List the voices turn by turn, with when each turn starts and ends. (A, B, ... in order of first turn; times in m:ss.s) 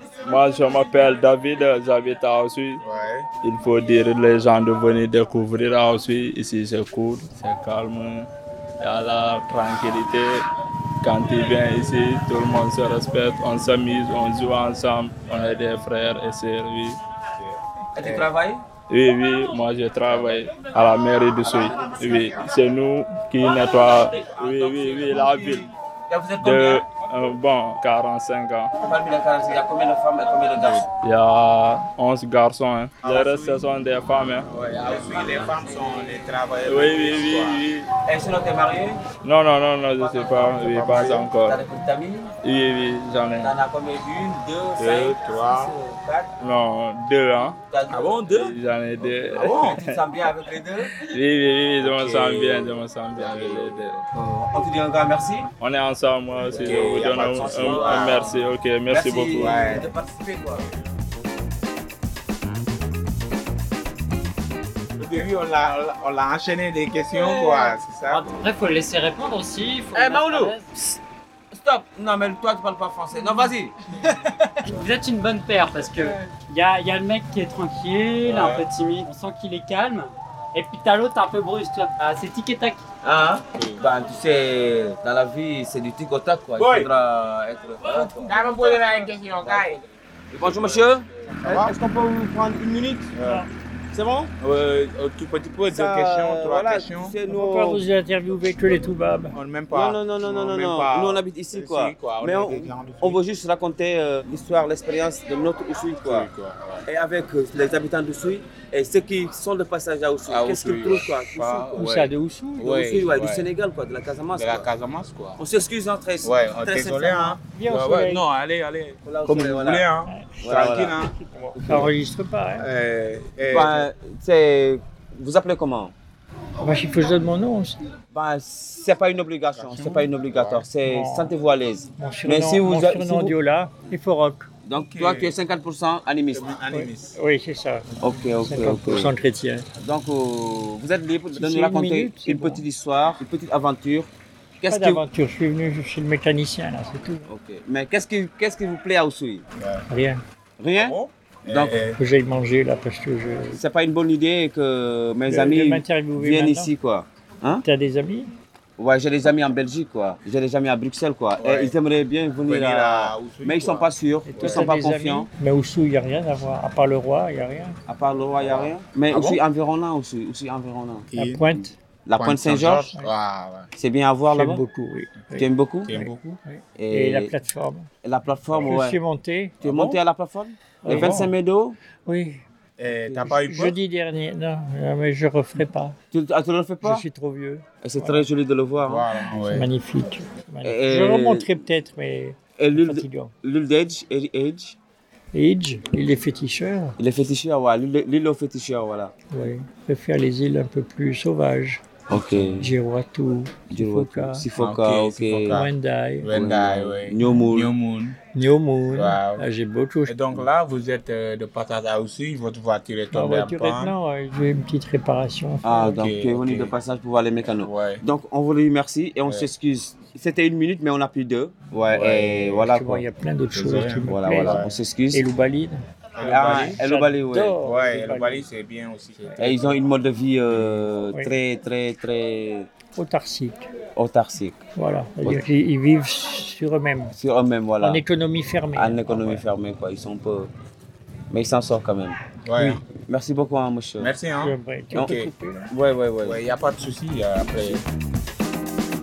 0:00.2-0:02.8 A
0:02.8-0:03.3 B
0:03.4-0:08.3 A
0:08.8-0:10.4 A
0:11.0-0:17.0 A
0:17.4-0:18.3 B
0:17.9-0:18.6 C
0:18.9-0:25.7 A
0:21.4-0:22.4 C
0:24.4-0:26.8 C
0:26.4-0:28.7 A
0:28.8-0:30.9 C
0:31.0-0:34.5 A
0:33.0-0:33.4 B
0:34.5-0:37.6 B
0:34.7-0:36.3 C
0:36.6-0:37.9 A
0:38.0-0:39.0 C
0:39.2-0:41.6 A
0:40.0-0:42.3 C
0:40.3-0:41.3 B
0:42.4-0:43.5 A
0:43.4-0:46.3 C
0:44.8-0:45.7 B
0:46.4-0:47.6 A
0:47.7-0:48.4 C
0:47.9-0:48.5 B
0:48.2-0:50.0 A
0:49.1-0:49.8 B
0:49.4-0:51.0 C
0:51.0-0:54.0 A
0:51.8-0:52.8 B
0:53.3-0:54.0 B
0:54.1-0:55.5 C
0:55.6-0:59.7 A
0:56.4-0:58.3 B
0:56.6-1:00.7 C
0:59.4-0:59.9 B
1:05.0-1:08.4 B
1:07.5-1:10.7 D
1:09.9-1:11.0 C
1:11.5-1:13.7 C
1:14.6-1:22.8 D
1:18.2-1:18.7 B
1:23.0-1:29.8 C
1:23.5-1:23.8 B
1:26.6-1:26.9 B
1:28.2-1:29.8 B
1:30.3-1:33.2 C
1:30.4-1:31.8 B
1:33.1-1:33.4 B
1:33.2-1:33.5 E
1:33.9-1:34.3 C
1:34.4-1:37.2 B
1:35.6-1:37.8 C
1:37.3-1:39.4 E
1:39.3-1:43.2 B
1:39.7-1:46.3 C
1:46.0-1:46.8 B
1:46.8-1:51.8 C
1:50.2-1:53.5 B
1:51.7-1:52.7 E
1:52.6-1:54.7 C
1:54.3-1:55.4 B
1:55.4-1:57.4 C
1:56.2-2:01.1 B
1:57.5-1:58.2 E
1:59.0-1:59.9 C
2:00.0-2:02.6 E
2:00.4-2:01.0 C
2:01.6-2:01.9 C
2:02.6-2:03.9 B
2:03.5-2:05.9 C
2:06.6-2:07.8 E
2:08.1-2:13.3 C
2:09.5-2:10.6 B
2:10.8-2:11.3 E
2:12.0-2:14.5 E
2:14.6-2:16.6 C
2:14.7-2:15.3 B
2:16.3-2:17.2 B
2:16.7-2:17.9 E
2:18.0-2:19.1 C
2:18.4-2:19.6 E
2:19.8-2:24.1 C
2:21.3-2:22.6 E
2:24.6-2:25.0 C
2:24.7-2:27.3 E
2:27.3-2:29.4 C
2:29.6-2:29.8 B
2:29.9-2:30.2 E
2:30.6-2:31.0 C
2:30.7-2:32.0 B
2:31.5-2:31.8 C
2:31.9-2:33.6 E
2:33.5-2:37.6 C
2:35.2-2:36.7 E
2:37.6-2:38.3 E
2:38.8-2:45.3 C
2:41.4-2:41.8 B
2:42.4-2:44.7 B
2:44.2-2:47.8 E
2:47.9-2:51.1 C
2:48.4-2:49.4 B
2:51.1-2:51.5 B
2:51.2-2:51.7 E
2:52.0-2:52.8 C
2:52.1-2:53.7 B
2:52.7-2:53.1 E
2:53.7-2:54.6 C
2:54.3-2:57.9 E
2:55.3-2:55.9 C
2:55.8-2:56.4 B
2:56.8-2:57.3 C
2:58.0-2:59.0 C
2:58.6-2:59.6 E
2:59.6-3:00.0 B
2:59.6-3:01.8 C
3:00.8-3:01.3 E
3:00.9-3:01.3 B
3:02.1-3:02.4 E
3:02.8-3:03.7 B
3:02.9-3:03.4 C
3:03.2-3:06.0 E
3:06.1-3:07.0 C
3:06.8-3:08.3 E
3:07.8-3:09.0 C
3:08.8-3:09.7 B
3:09.2-3:13.3 E
3:10.6-3:11.5 C
3:12.6-3:14.8 C
3:15.3-3:17.0 E
3:17.0-3:19.1 C
3:19.3-3:21.8 E
3:22.1-3:22.7 C
3:22.3-3:24.5 E
3:23.7-3:25.5 C
3:24.5-3:25.7 B
3:25.4-3:26.4 E
3:26.2-3:28.2 B
3:26.3-3:27.8 C
3:28.3-3:30.2 E
3:28.9-3:29.4 B
3:30.1-3:33.9 B
3:33.1-3:35.9 E
3:35.6-3:43.0 C
3:35.8-3:36.7 B
3:37.6-3:38.0 B
3:41.9-3:42.2 B
3:42.2-3:45.8 E
3:43.5-3:44.7 B
3:44.1-3:45.2 C
3:46.2-3:46.8 B
3:46.2-3:47.6 C
3:46.7-3:48.5 E
3:47.6-3:49.8 B
3:49.4-3:52.7 C
3:52.9-3:53.7 E
3:54.0-3:54.6 C
3:54.8-3:57.1 E
3:57.1-3:58.0 C
3:57.8-3:59.4 E
3:58.7-4:00.5 C
4:01.3-4:02.2 C
4:02.4-4:02.8 B
4:02.5-4:02.8 E
4:02.9-4:04.1 C
4:04.0-4:05.3 B
4:04.3-4:05.7 E
4:04.9-4:06.4 C
4:06.2-4:07.8 B